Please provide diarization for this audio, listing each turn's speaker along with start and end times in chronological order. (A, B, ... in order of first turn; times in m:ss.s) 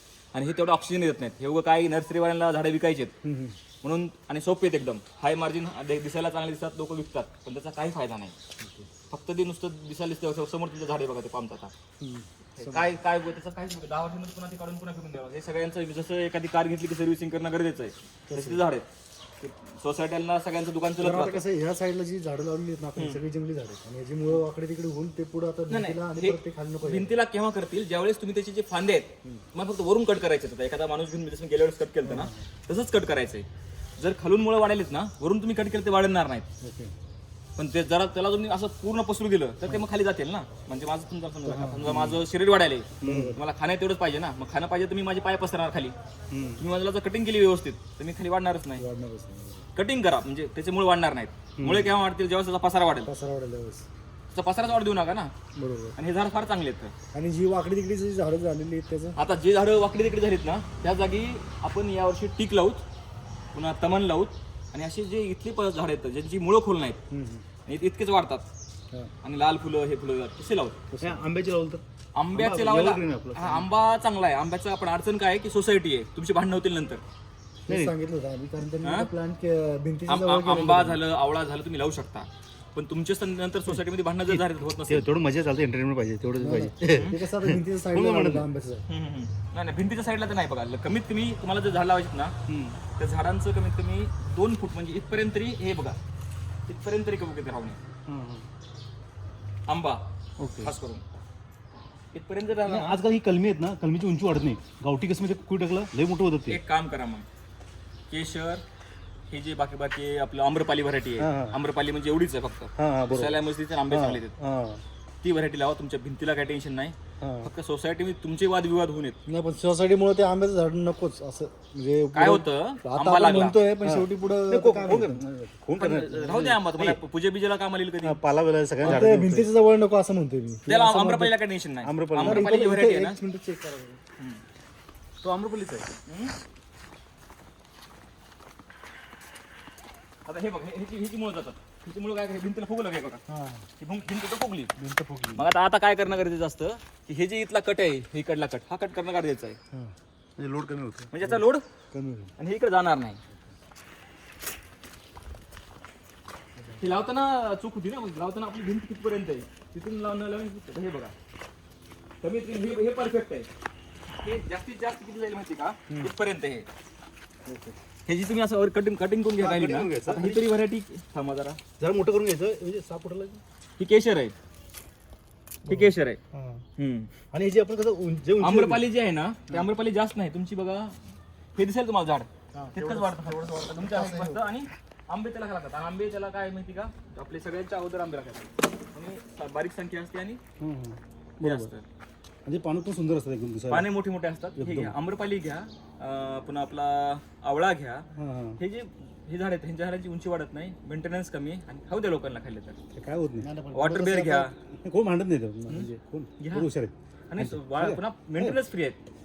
0:00.3-0:03.1 A
0:03.2-0:03.6 B
0:03.8-0:08.3 A
0:08.6-0:08.9 B
0:09.1-0:11.7 A
0:12.0-0:12.9 B
0:12.5-0:18.8 A
0:18.3-0:18.6 B
0:19.4-0:21.4 A
0:21.0-0:27.2 B
0:25.7-0:33.4 A
0:32.0-0:32.4 B
0:34.0-0:36.5 A
0:36.6-0:36.9 B
0:37.6-0:45.9 A
0:41.4-0:42.2 B
0:41.8-0:42.2 C
0:43.0-0:43.4 B
0:43.0-0:43.4 C
0:46.3-0:46.6 C
0:46.6-0:48.8 A
0:48.8-0:49.6 B
0:49.7-0:53.1 A
0:51.6-0:51.9 C
0:53.0-0:53.9 B
0:54.3-0:55.3 A
0:55.6-0:56.0 B
0:56.0-0:56.9 A
0:57.1-0:59.2 B
0:59.2-1:02.8 A
1:03.5-1:07.0 A
1:07.1-1:07.4 B
1:07.6-1:08.5 A
1:09.2-1:10.8 A
1:10.9-1:11.3 B
1:11.0-1:11.8 C
1:12.1-1:17.0 A
1:12.3-1:13.7 C
1:17.7-1:21.0 B
1:17.7-1:17.9 C
1:18.8-1:19.1 A
1:20.1-1:25.1 A
1:24.2-1:28.4 C
1:26.4-1:28.8 B
1:28.9-1:32.4 A
1:32.5-1:32.8 C
1:32.9-1:36.0 A
1:36.7-1:37.8 A
1:38.1-1:38.5 C
1:39.7-1:40.0 A
1:40.4-1:40.7 C
1:40.6-1:41.0 A
1:42.1-1:43.0 A
1:42.6-1:46.6 C
1:46.4-1:47.2 A
1:48.1-1:48.6 A
1:49.3-1:54.3 A
1:51.2-1:51.6 C
1:52.8-1:53.4 C
1:53.9-1:54.8 C
1:55.2-1:59.2 A
1:57.2-1:57.5 C
1:59.3-2:05.2 B
2:02.1-2:03.6 A
2:03.8-2:07.0 C
2:05.8-2:08.2 A
2:08.0-2:09.5 C
2:08.8-2:11.3 B
2:10.7-2:13.2 A
2:11.8-2:12.6 C
2:12.1-2:14.0 B
2:15.2-2:15.9 C
2:16.1-2:16.3 A
2:20.2-2:23.2 A
2:23.3-2:23.7 B
2:23.8-2:24.7 A
2:24.8-2:25.2 B
2:25.3-2:29.6 A
2:30.4-2:31.1 C
2:31.1-2:31.6 A
2:31.9-2:32.3 B
2:32.4-2:33.2 A
2:36.6-2:36.9 B
2:36.8-2:41.1 A
2:42.2-2:43.5 A
2:44.2-2:46.7 A
2:47.5-2:47.7 C
2:48.0-2:51.6 A
2:49.4-2:50.5 C
2:51.8-2:53.4 C
2:53.8-2:54.3 A
2:55.6-2:56.2 A
2:55.7-2:56.6 B
2:56.8-2:57.1 A
2:57.3-2:58.9 C
2:58.4-3:01.0 A
3:01.6-3:10.4 A
3:02.5-3:04.4 B
3:10.6-3:11.7 C
3:11.4-3:11.8 A
3:12.4-3:13.9 C
3:13.7-3:18.0 A
3:14.6-3:14.9 C
3:18.2-3:18.6 C
3:18.6-3:22.8 A
3:22.9-3:28.6 C
3:23.4-3:24.5 B
3:23.7-3:24.5 A
3:25.7-3:26.7 A
3:27.3-3:29.1 A